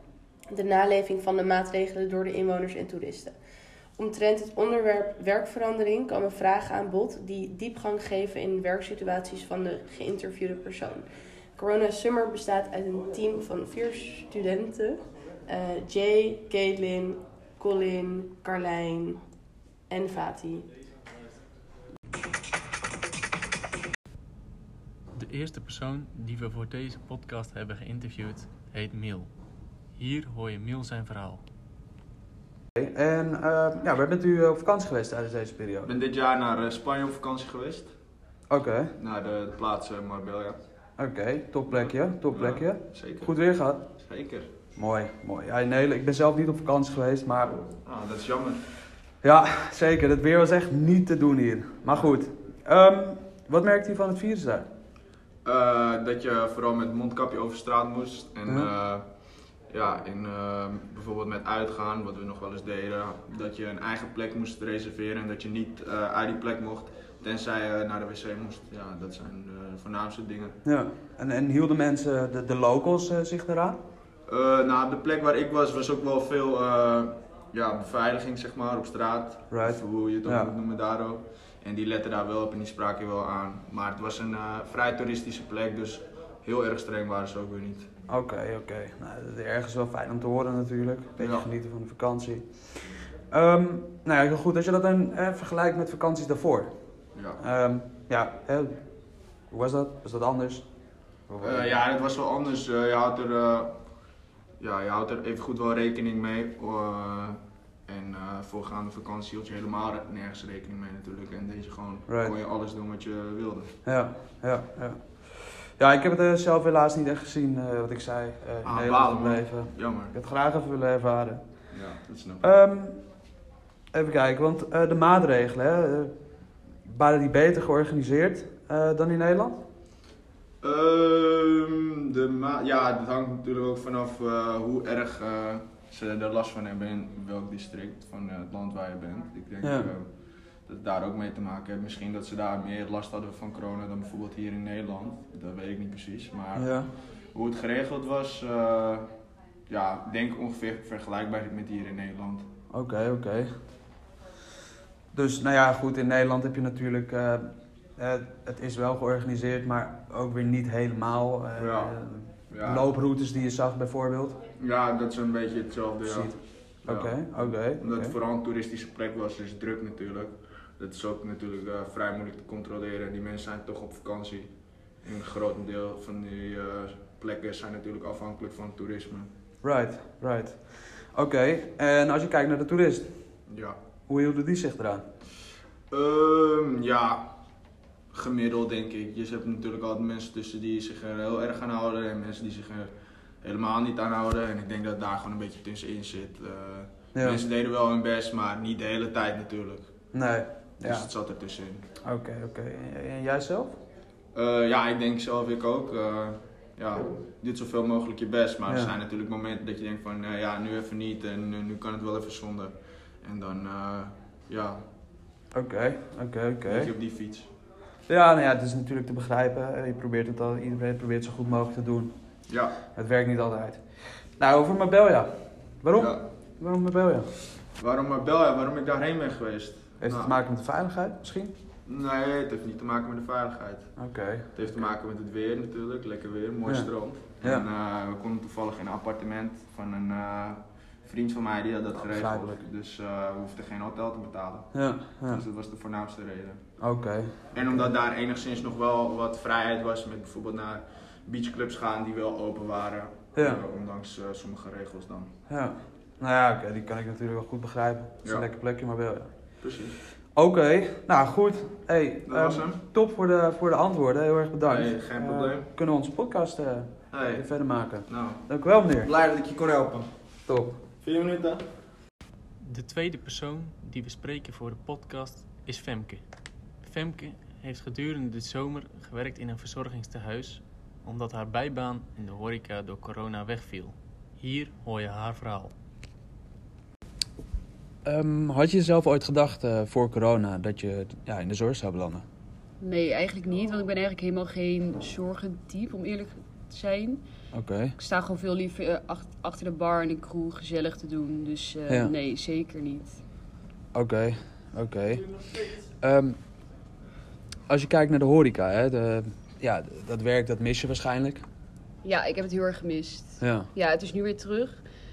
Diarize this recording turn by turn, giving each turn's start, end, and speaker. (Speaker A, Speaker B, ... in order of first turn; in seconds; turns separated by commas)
Speaker A: 0.5-3.3, Speaker A: 4.0-19.2, Speaker A: 19.9-20.7, Speaker B: 25.1-29.3, Speaker B: 30.0-31.4, Speaker C: 32.8-35.9, Speaker D: 35.8-37.9, Speaker C: 38.5-38.9, Speaker D: 39.0-40.6, Speaker C: 41.0-43.8, Speaker D: 41.7-43.3, Speaker D: 44.0-44.5, Speaker C: 44.8-47.6, Speaker D: 47.8-48.6, Speaker C: 49.2-54.7, Speaker D: 55.4-59.0, Speaker D: 59.7-70.6, Speaker C: 70.6-73.8, Speaker D: 74.3-87.9, Speaker C: 79.5-80.5, Speaker C: 88.1-96.7, Speaker D: 91.2-91.5, Speaker D: 97.1-97.4, Speaker C: 97.4-98.8, Speaker C: 99.5-100.7, Speaker C: 101.3-101.7, Speaker D: 101.4-103.8, Speaker D: 104.6-113.7, Speaker C: 112.1-112.3, Speaker C: 113.8-121.4, Speaker D: 118.6-120.1, Speaker D: 121.7-122.4, Speaker C: 122.4-123.0, Speaker C: 123.9-126.1, Speaker C: 126.8-129.6, Speaker D: 130.6-140.1, Speaker C: 139.6-139.9, Speaker D: 140.7-146.7, Speaker C: 146.5-146.9, Speaker D: 147.3-149.1, Speaker D: 149.7-152.5, Speaker C: 152.7-153.5, Speaker C: 155.1-164.4, Speaker D: 161.6-161.9, Speaker D: 162.5-162.9, Speaker D: 164.6-174.5, Speaker C: 166.0-168.1, Speaker D: 175.0-179.3, Speaker C: 179.6-183.1, Speaker D: 183.5-183.8, Speaker C: 184.1-185.1, Speaker D: 185.9-187.3, Speaker D: 188.1-192.9, Speaker D: 193.4-199.9, Speaker C: 197.2-197.4, Speaker C: 200.1-201.1, Speaker D: 200.8-201.8, Speaker C: 202.0-203.8, Speaker D: 204.3-214.8, Speaker C: 208.7-208.9, Speaker C: 215.5-216.9, Speaker D: 216.7-217.5, Speaker C: 218.1-222.1, Speaker D: 222.5-222.8, Speaker C: 222.9-227.3, Speaker D: 225.9-226.2, Speaker D: 227.8-230.4, Speaker C: 230.0-231.5, Speaker D: 231.8-233.9, Speaker C: 234.0-234.6, Speaker D: 234.5-244.7, Speaker C: 242.0-242.6, Speaker C: 244.7-245.4, Speaker D: 245.2-246.6, Speaker C: 246.8-247.9, Speaker D: 247.5-255.3, Speaker C: 253.3-253.6, Speaker C: 255.5-259.3, Speaker D: 259.6-260.0, Speaker C: 260.3-269.1, Speaker D: 262.2-262.8, Speaker D: 264.6-265.7, Speaker D: 267.1-267.4, Speaker D: 268.1-268.4, Speaker D: 269.0-270.1, Speaker C: 270.5-270.8, Speaker D: 271.0-271.6, Speaker B: 272.6-276.2, Speaker B: 276.8-285.7, Speaker C: 288.0-292.2, Speaker E: 292.8-297.2, Speaker C: 297.5-297.9, Speaker E: 297.9-303.2, Speaker C: 303.9-306.4, Speaker C: 307.7-311.4, Speaker E: 312.0-314.8, Speaker C: 313.4-313.7